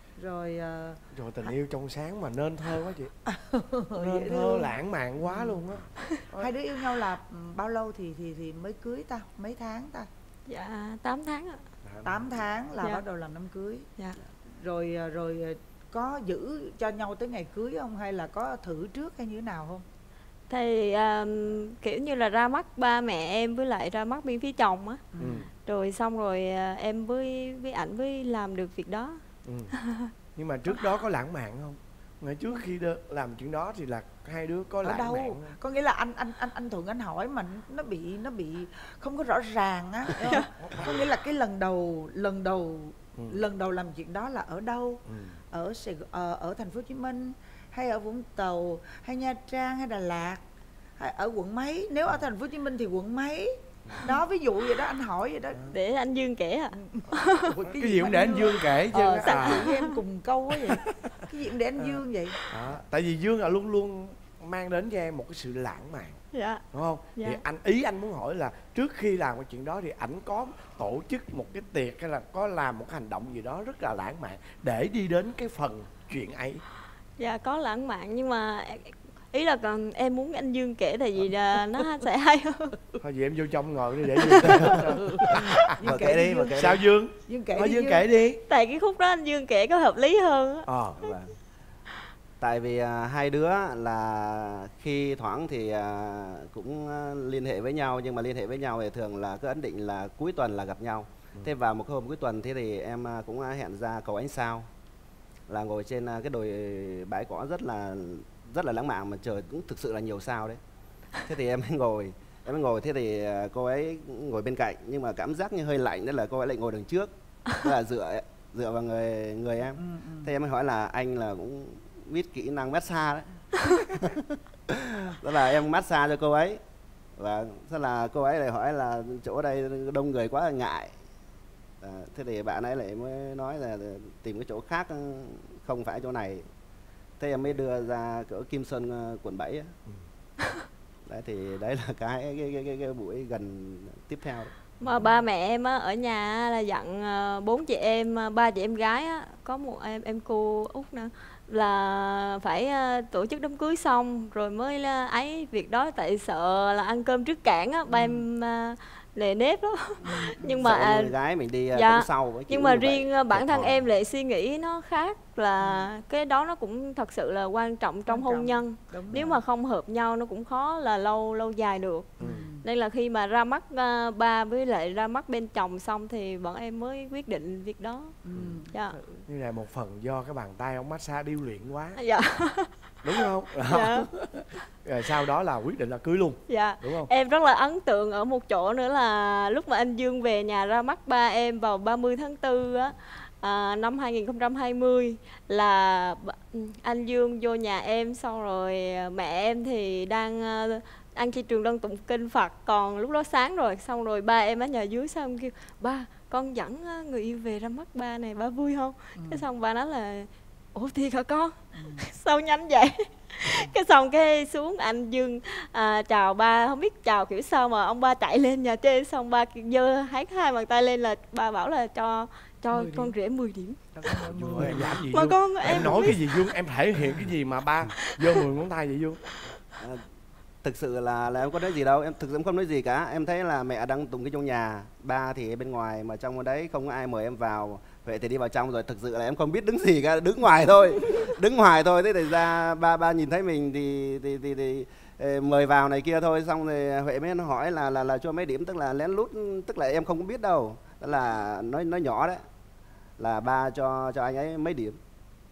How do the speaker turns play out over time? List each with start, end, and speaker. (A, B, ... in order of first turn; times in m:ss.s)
0:00.2-0:01.0 A
0:01.1-0:03.1 B
0:03.3-0:05.6 A
0:03.9-0:06.5 B
0:06.4-0:10.1 A
0:10.5-0:11.7 C
0:11.8-0:12.4 B
0:12.0-0:13.9 A
0:14.6-0:19.8 A
0:20.5-0:25.0 C
0:25.1-0:25.4 A
0:25.2-0:25.5 B
0:25.6-0:29.2 C
0:29.4-0:29.7 B
0:29.7-0:30.1 C
0:30.3-0:35.6 B
0:34.8-0:50.4 A
0:40.6-0:41.1 B
0:43.2-0:43.4 B
0:45.1-0:45.4 B
0:51.0-0:55.6 A
0:53.8-0:54.2 B
0:55.7-0:57.5 C
0:56.7-1:02.4 A
0:57.5-0:59.7 B
0:59.3-0:59.6 C
1:01.8-1:06.2 B
1:06.3-1:06.6 C
1:06.7-1:16.6 B
1:07.1-1:07.4 C
1:17.2-1:22.7 C
1:23.0-1:25.8 B
1:24.2-1:24.8 C
1:24.9-1:25.2 A
1:25.8-1:28.0 A
1:25.8-1:26.8 D
1:26.6-1:28.4 B
1:28.5-1:30.7 C
1:30.6-1:31.0 B
1:31.0-1:31.3 D
1:32.4-1:44.7 D
1:45.5-1:50.6 D
1:51.2-2:03.4 D
1:59.8-2:00.3 A
2:04.0-2:06.6 D
2:07.2-2:10.9 D
2:11.8-2:16.4 D
2:17.2-2:19.7 D
2:21.1-2:24.5 D
2:24.8-2:25.1 B
2:24.8-2:41.1 C
2:37.9-2:38.2 A
2:40.0-2:40.7 A
2:40.6-2:43.8 D
2:41.7-2:58.1 C
2:45.6-2:45.9 A
2:48.1-2:49.4 A
2:52.2-2:52.5 B
2:52.2-2:52.6 A
2:58.2-2:59.2 A
2:58.3-2:58.6 B
2:58.7-2:59.0 C
2:59.3-3:02.0 B
3:02.0-3:04.1 C
3:03.0-3:07.1 B
3:06.5-3:43.8 C
3:29.2-3:29.4 A
3:31.7-3:32.0 A
3:42.7-3:43.1 A
3:43.9-3:45.1 A
3:44.2-3:49.2 B
3:44.6-3:46.5 C
3:50.6-4:12.4 D
4:13.2-4:15.0 D